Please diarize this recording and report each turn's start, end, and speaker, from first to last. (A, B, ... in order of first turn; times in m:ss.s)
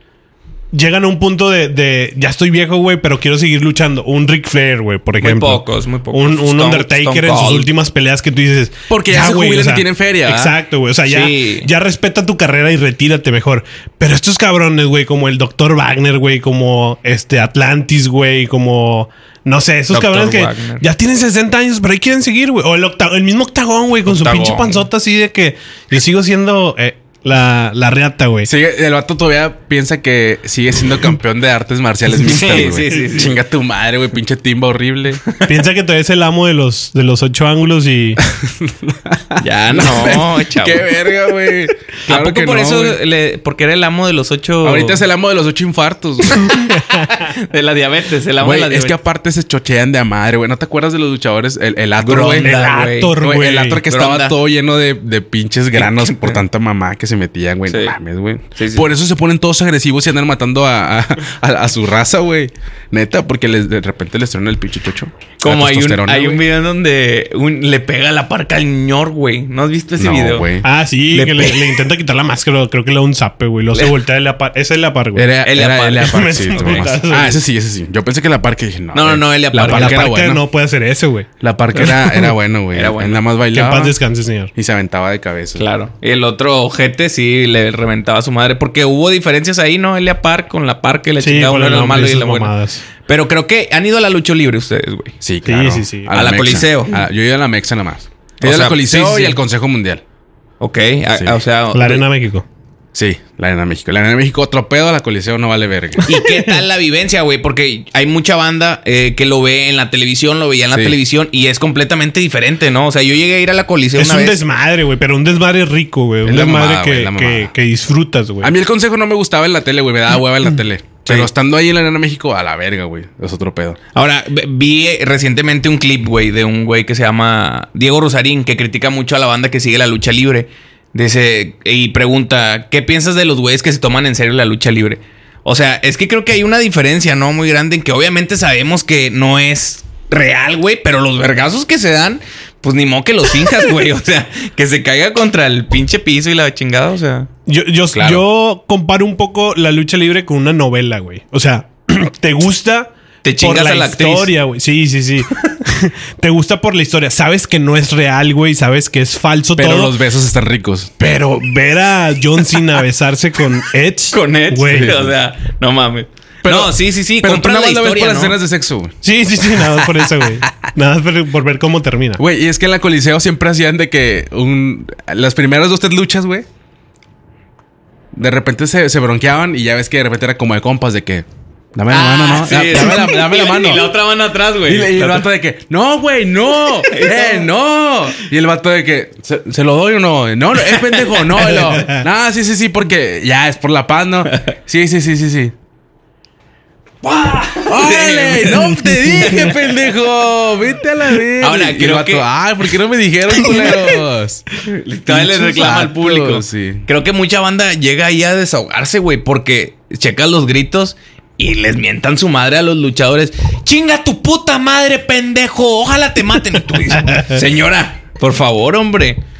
0:00.7-0:28.5 A
0:05.2-0:07.7 B
0:08.9-0:10.6 C
0:11.1-0:11.7 B
0:19.9-0:20.8 B
0:24.0-0:24.8 B
0:28.4-0:35.2 C
0:32.2-0:33.4 B
0:35.4-0:38.2 A
0:38.2-0:43.0 C
0:39.4-0:40.9 B
0:42.1-0:45.0 B
0:44.6-0:46.6 C
0:46.3-0:49.0 B
0:46.5-0:47.1 A
0:48.4-0:52.5 C
0:52.0-0:53.2 B
0:52.4-0:53.8 A
0:53.2-1:06.4 C
0:53.9-0:54.4 B
0:55.8-0:56.4 B
0:57.7-0:58.0 B
0:58.6-0:58.9 B
1:05.4-1:10.4 B
1:10.0-1:10.7 C
1:10.6-1:15.3 A
1:11.1-1:11.8 B
1:15.1-1:20.4 C
1:15.4-1:16.9 B
1:16.0-1:17.4 A
1:18.9-1:20.1 B
1:19.6-1:22.3 A
1:21.4-1:24.0 C
1:22.7-1:23.2 B
1:23.5-1:24.5 A
1:24.5-1:25.6 C
1:25.6-1:32.5 B
1:31.2-1:32.8 A
1:33.0-1:35.1 B
1:35.2-1:40.0 C
1:35.4-1:36.1 A
1:36.1-1:37.0 B
1:38.4-1:39.4 B
1:40.6-1:42.0 B
1:41.7-1:42.4 A
1:42.9-1:46.0 C
1:46.0-1:54.4 B
1:46.1-1:46.6 A
1:50.7-1:51.0 C
1:54.0-1:58.5 A
1:56.2-1:57.5 C
1:58.4-2:03.8 C
2:03.9-2:27.3 B
2:27.5-2:40.0 A
2:27.9-2:28.2 C
2:33.2-2:34.3 B
2:39.6-2:41.0 C
2:41.0-2:45.1 A
2:44.1-2:48.4 B
2:44.7-2:45.0 C
2:46.4-2:48.9 C
2:49.0-2:52.2 A
2:52.2-2:56.4 C
2:58.1-3:03.9 C
3:01.9-3:05.3 B
3:04.6-3:15.5 C
3:06.6-3:07.5 B
3:10.6-3:11.8 B
3:17.0-3:19.6 B
3:17.7-3:24.4 C
3:21.4-3:22.2 B
3:24.6-3:39.2 B
3:25.1-3:26.8 C